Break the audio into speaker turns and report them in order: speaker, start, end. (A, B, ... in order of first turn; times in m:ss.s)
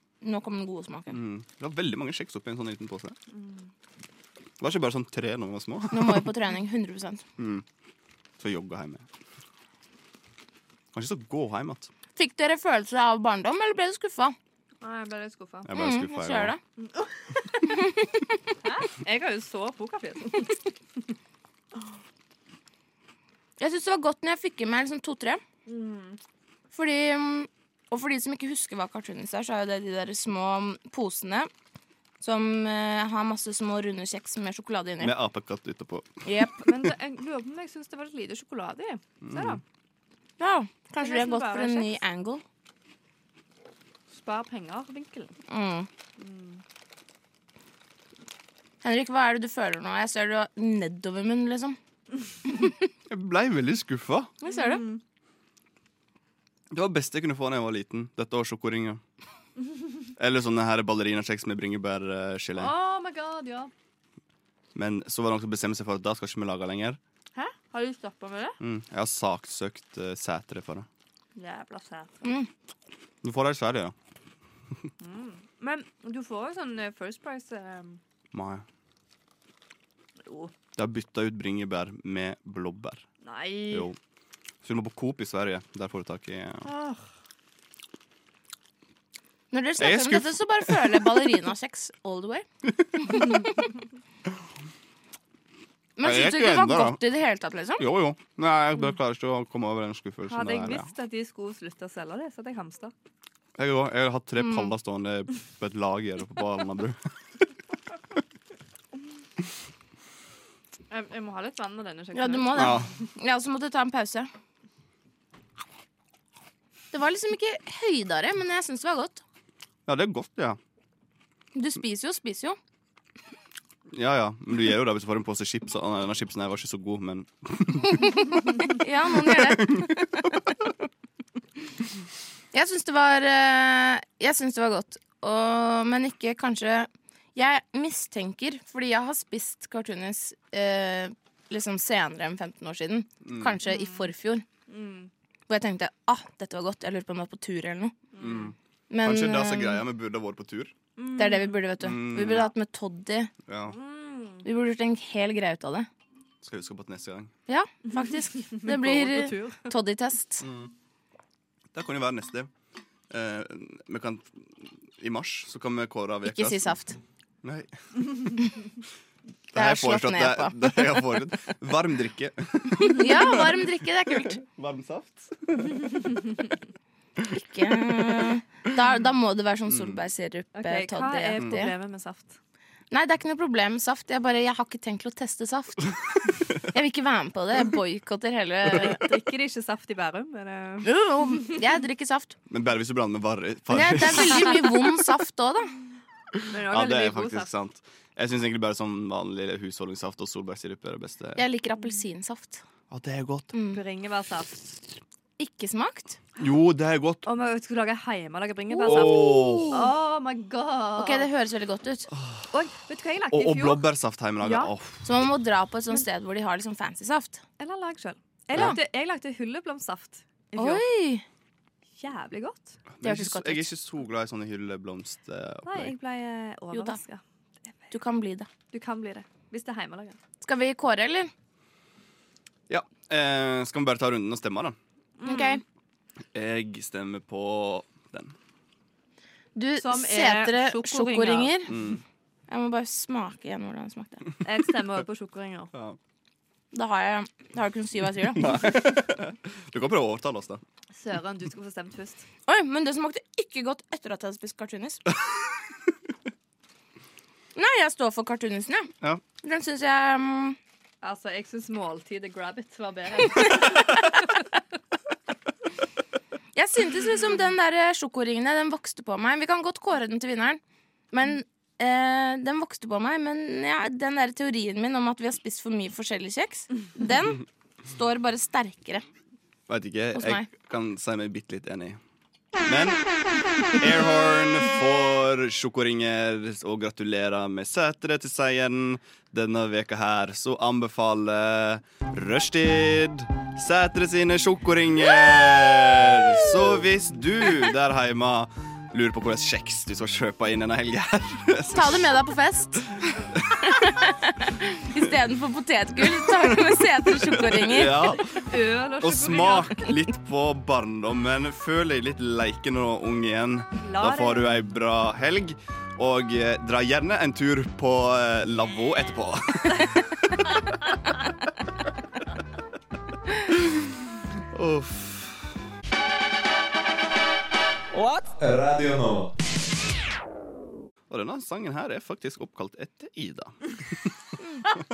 0:00.2-0:01.2 A
0:01.1-0:03.2 B
0:03.3-0:03.7 C
0:04.6-0:06.3 B
0:05.9-0:07.2 A
0:07.4-0:07.6 B
0:08.4-0:09.1 B
0:10.9-0:11.9 B
0:12.2-0:14.4 A
0:14.8-0:15.7 C
0:15.6-0:16.6 B
0:15.8-0:16.6 A
0:16.8-0:17.8 C
0:18.6-0:20.7 C
0:23.6-0:25.4 A
0:25.7-0:26.2 C
0:26.7-0:31.5 A
0:32.2-0:35.1 A
0:35.0-0:36.9 B
0:36.2-0:36.6 A
0:36.6-0:39.6 C
0:39.2-0:39.6 B
0:40.4-0:42.4 A
0:41.0-0:42.0 C
0:44.1-0:45.4 C
0:45.5-0:45.9 A
0:46.2-0:46.6 C
0:48.8-0:51.8 A
0:53.1-0:54.3 B
0:54.4-0:54.8 A
0:54.4-0:55.0 C
0:56.7-0:59.0 B
1:00.2-1:02.7 B
1:02.6-1:03.7 C
1:04.8-1:07.0 B
1:07.4-1:08.6 C
1:08.6-1:10.9 B
1:11.4-1:12.2 C
1:13.2-1:13.9 B
1:15.0-1:18.0 C
1:18.3-1:18.6 B
1:20.2-1:20.5 C
1:20.8-1:23.1 B
1:23.2-1:23.9 C
1:23.7-1:24.0 B
1:24.6-1:26.7 B
1:26.6-1:27.0 C
1:29.5-1:32.5 A
1:29.8-1:31.1 B
1:33.0-1:33.4 A
1:36.0-1:37.9 A
1:36.0-1:37.0 B
1:37.8-1:40.9 B
1:40.3-1:42.9 C
1:43.6-1:47.0 B
1:44.4-1:44.7 A
1:50.9-1:52.9 C
1:52.1-1:54.3 A
1:52.5-1:52.9 B
1:56.9-1:59.2 A
1:59.9-2:00.6 B
2:01.6-2:02.6 A
2:03.9-2:08.2 B
2:08.0-2:10.4 A
2:09.1-2:10.4 B
2:12.5-2:24.4 A
2:23.2-2:23.6 B
2:23.6-2:24.1 C
2:24.7-2:25.1 C
2:25.5-2:28.0 A
2:28.1-2:28.5 C
2:28.2-2:30.8 B
2:28.9-2:29.8 A
2:31.0-2:31.6 C
2:31.2-2:33.3 A
2:31.8-2:32.5 B
2:33.5-2:33.8 B
2:33.7-2:34.5 C
2:34.4-2:35.9 A
2:36.4-2:37.3 B
2:37.5-2:40.5 A
2:37.9-2:39.7 C
2:40.4-2:40.7 B
2:41.7-2:42.5 B
2:43.1-2:46.7 B
2:46.2-2:47.0 A
2:47.4-2:47.8 B
2:49.5-2:55.8 B
2:49.6-2:51.2 A
2:52.8-2:54.4 A
2:57.3-3:01.7 A
2:57.9-2:58.2 B
2:59.7-3:00.0 B
3:00.6-3:02.4 C
3:02.9-3:05.9 A
3:06.6-3:09.0 A
3:08.7-3:10.9 C
3:10.8-3:12.4 A
3:12.5-3:14.8 B
3:13.7-3:15.7 A
3:16.4-3:21.4 B
3:16.5-3:17.5 C
3:21.4-3:22.6 A
3:22.9-3:23.5 B
3:23.5-3:23.8 A
3:23.7-3:24.8 C
3:25.4-3:26.2 A
3:26.4-3:27.3 B
3:27.3-3:31.3 C
3:28.7-3:29.8 A
3:28.9-3:29.9 B
3:31.0-3:32.1 A
3:32.1-3:32.5 B
3:32.5-3:33.9 C
3:33.3-3:35.3 B
3:34.4-3:34.7 C
3:35.0-3:37.4 A
3:37.6-3:40.8 C
3:38.5-3:38.8 B
3:40.6-3:41.2 A
3:42.0-3:42.8 C
3:42.9-3:45.9 B
3:43.0-3:43.7 A
3:45.7-3:47.9 C
3:46.7-3:47.0 A
3:47.9-3:48.5 A
3:48.7-3:50.2 C
3:50.4-3:51.3 A
3:52.7-3:54.8 B
3:55.2-3:55.6 C
3:55.2-3:55.6 A
3:56.3-3:58.4 B
3:59.6-4:01.8 A
3:59.8-4:01.6 C
4:01.7-4:02.0 B
4:02.5-4:04.3 A
4:04.4-4:05.7 C
4:06.7-4:08.8 A
4:08.2-4:10.6 B
4:11.0-4:12.3 C
4:12.5-4:15.0 A
4:17.6-4:20.6 A
4:21.0-4:24.4 C
4:23.6-4:24.1 A
4:26.6-4:30.6 A
4:31.1-4:39.0 A
4:39.7-4:42.0 B
4:40.2-4:40.5 A
4:42.6-4:43.0 B
4:43.7-5:02.2 B
5:01.7-5:08.1 A
5:03.3-5:03.6 B
5:06.2-5:19.9 B
5:08.4-5:09.8 C
5:13.8-5:14.5 C
5:23.5-5:23.8 B
5:24.5-5:25.5 B
5:31.1-5:34.1 B